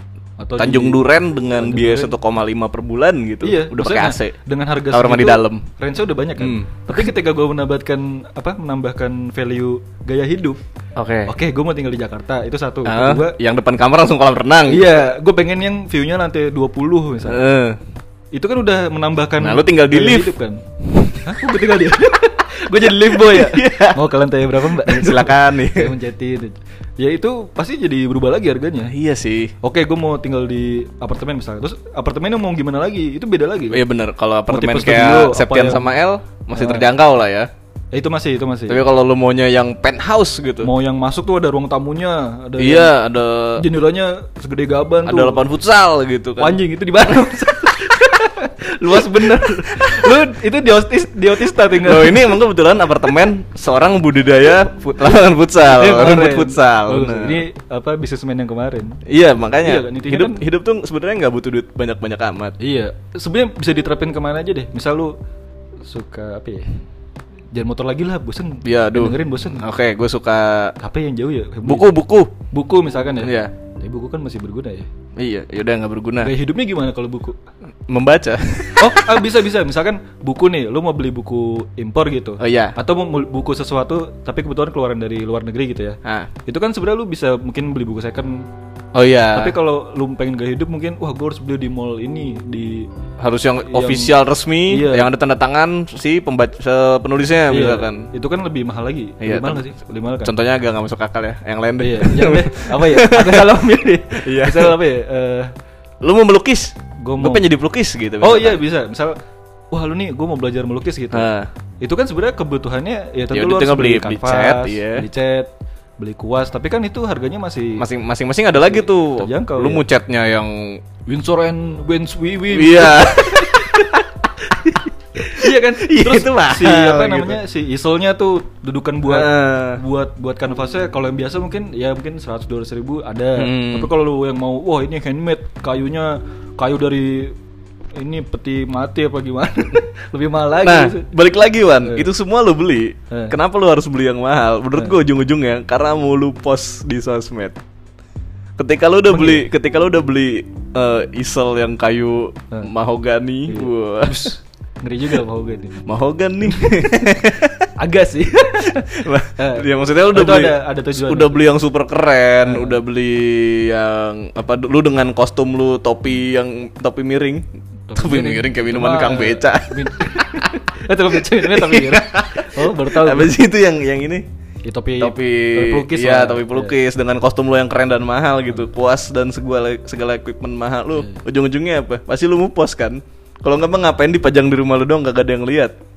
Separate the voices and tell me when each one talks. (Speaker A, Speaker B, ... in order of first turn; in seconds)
Speaker A: 0.4-2.1, 3.4-10.6, 11.3-13.4, 14.7-17.4, 18.3-20.6, 21.2-28.9, 29.6-33.9, 34.5-35.9, 36.5-36.9, 37.9-38.9, 40.6-43.0, 43.6-45.4, 46.4-52.4, 55.6-59.0, 59.6-60.4, 62.6-65.2, 65.8-66.7, 67.5-69.7, 70.8-71.9, 72.5-74.9, 76.2-77.4, 78.8-88.5, 89.3-92.9, 93.7-94.2, 94.7-95.1, 97.5-100.3, 101.8-105.5, 107.0-107.5, 108.2-109.2, 109.7-111.3, 111.8-117.9, 118.5-119.8, 121.1-137.4, 137.9-141.1, 141.8-142.1, 143.1-143.4, 149.1-149.5, 153.5-155.8, 156.4-156.9, 157.8-161.5, 162.4-162.8, 167.9-173.4, 174.6-176.8, 180.9-181.2
Speaker B: 0.6-4.4, 4.9-5.7, 6.4-7.1, 11.0-11.3, 12.8-14.9, 17.3-17.8, 19.4-20.3, 20.9-21.2, 23.1-24.0, 24.6-25.9, 28.9-29.5, 33.7-37.5, 38.7-40.7, 42.6-43.7, 45.1-46.6, 49.0-50.1, 51.7-57.4, 59.1-62.6, 68.6-70.8, 71.6-72.3, 73.2-73.5, 75.2-76.3, 77.9-79.2, 82.4-82.8, 86.0-86.3, 88.9-89.5, 93.2-98.1, 99.2-99.7, 100.2-104.8, 106.0-108.6, 111.1-111.5, 113.3-115.1, 117.8-120.8, 122.5-124.1, 125.3-127.4, 129.1-129.8, 133.4-133.9, 140.6-147.6, 148.6-154.3, 155.8-157.7, 158.6-170.6, 171.3-174.2, 175.0-185.8